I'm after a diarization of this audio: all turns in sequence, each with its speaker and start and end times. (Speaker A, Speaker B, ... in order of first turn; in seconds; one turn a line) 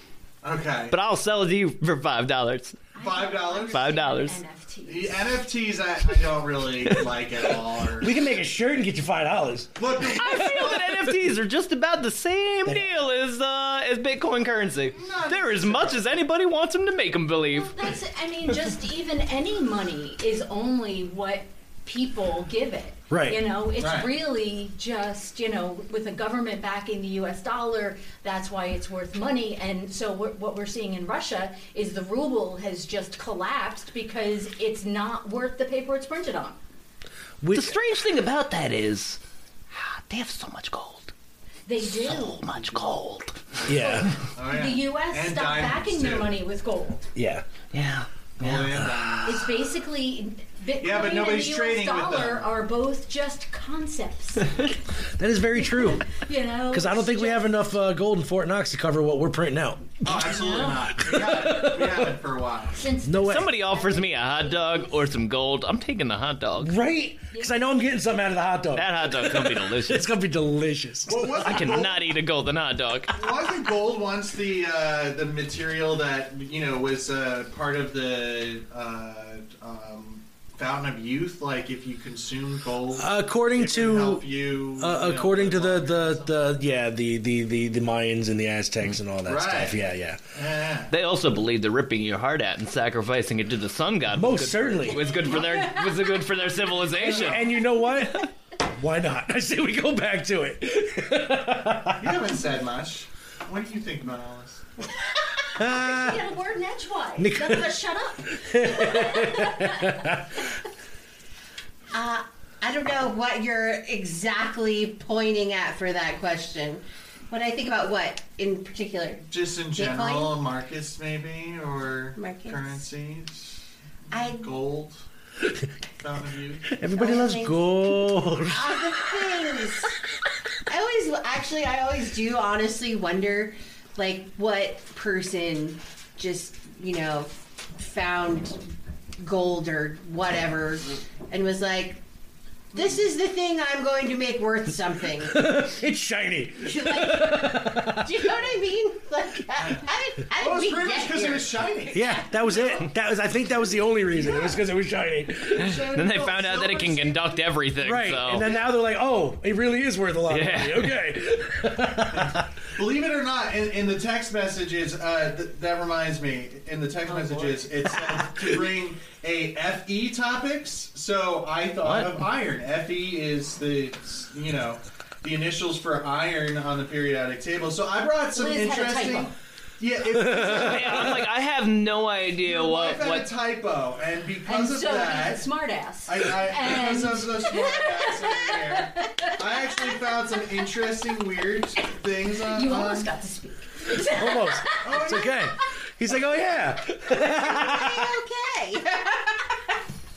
Speaker A: 0.4-1.0
Speaker B: 0.9-2.9
Speaker C: 3.0-5.4
Speaker A: 3.0-3.8
Speaker B: 3.7-4.4
Speaker A: 4.9-8.2
Speaker D: 8.0-10.8
Speaker A: 9.8-10.8
Speaker B: 10.1-17.7
Speaker A: 15.0-16.1
Speaker C: 17.5-36.6
Speaker D: 23.1-23.4
Speaker A: 23.8-24.1
Speaker D: 37.4-37.8
Speaker B: 37.5-39.2
Speaker B: 39.7-41.1
Speaker C: 41.7-42.4
Speaker B: 41.8-43.4
Speaker A: 43.6-46.3
Speaker D: 43.7-44.1
Speaker C: 44.5-47.1
Speaker D: 47.1-47.5
Speaker B: 47.7-48.7
Speaker A: 48.4-49.6
Speaker C: 49.2-54.5
Speaker A: 50.8-52.5
Speaker D: 55.2-56.1
Speaker C: 55.5-57.7
Speaker D: 56.7-60.3
Speaker A: 60.0-62.8
Speaker C: 60.3-60.8
Speaker D: 61.0-62.1
Speaker C: 62.7-64.9
Speaker D: 63.0-63.5
Speaker B: 63.3-66.7
Speaker D: 66.6-71.9
Speaker B: 68.8-70.1
Speaker A: 71.1-72.0
Speaker B: 71.4-73.1
Speaker A: 73.1-86.3
Speaker D: 83.0-84.2
Speaker D: 84.8-90.2
Speaker A: 89.3-89.8
Speaker A: 90.3-90.9
Speaker B: 90.9-97.4
Speaker D: 94.1-95.1
Speaker A: 97.0-97.4
Speaker D: 97.0-102.2
Speaker A: 102.0-104.7
Speaker C: 105.1-110.1
Speaker D: 105.6-106.2
Speaker D: 107.2-107.8
Speaker D: 108.4-110.2
Speaker E: 111.9-120.3
Speaker A: 119.3-123.6
Speaker E: 122.2-122.8
Speaker E: 124.1-124.5
Speaker A: 124.2-125.0
Speaker A: 126.0-126.7
Speaker D: 126.7-129.3
Speaker E: 126.9-130.0
Speaker E: 130.7-138.6
Speaker E: 139.2-142.0
Speaker E: 142.7-145.5
Speaker D: 145.2-148.4
Speaker E: 146.6-151.7
Speaker A: 149.6-149.8
Speaker A: 150.4-152.8
Speaker D: 151.9-155.8
Speaker A: 154.1-154.6
Speaker A: 155.5-157.4
Speaker B: 155.6-158.5
Speaker D: 157.8-162.5
Speaker B: 160.3-161.0
Speaker A: 162.2-181.2
Speaker E: 167.3-167.5
Speaker D: 168.0-168.5
Speaker C: 178.3-179.3
Speaker D: 180.1-181.0
Speaker B: 180.5-183.3
Speaker A: 182.4-185.4
Speaker C: 184.5-190.4
Speaker A: 186.1-193.1
Speaker C: 192.4-195.4
Speaker D: 194.1-198.1
Speaker A: 194.8-195.3
Speaker E: 197.1-199.3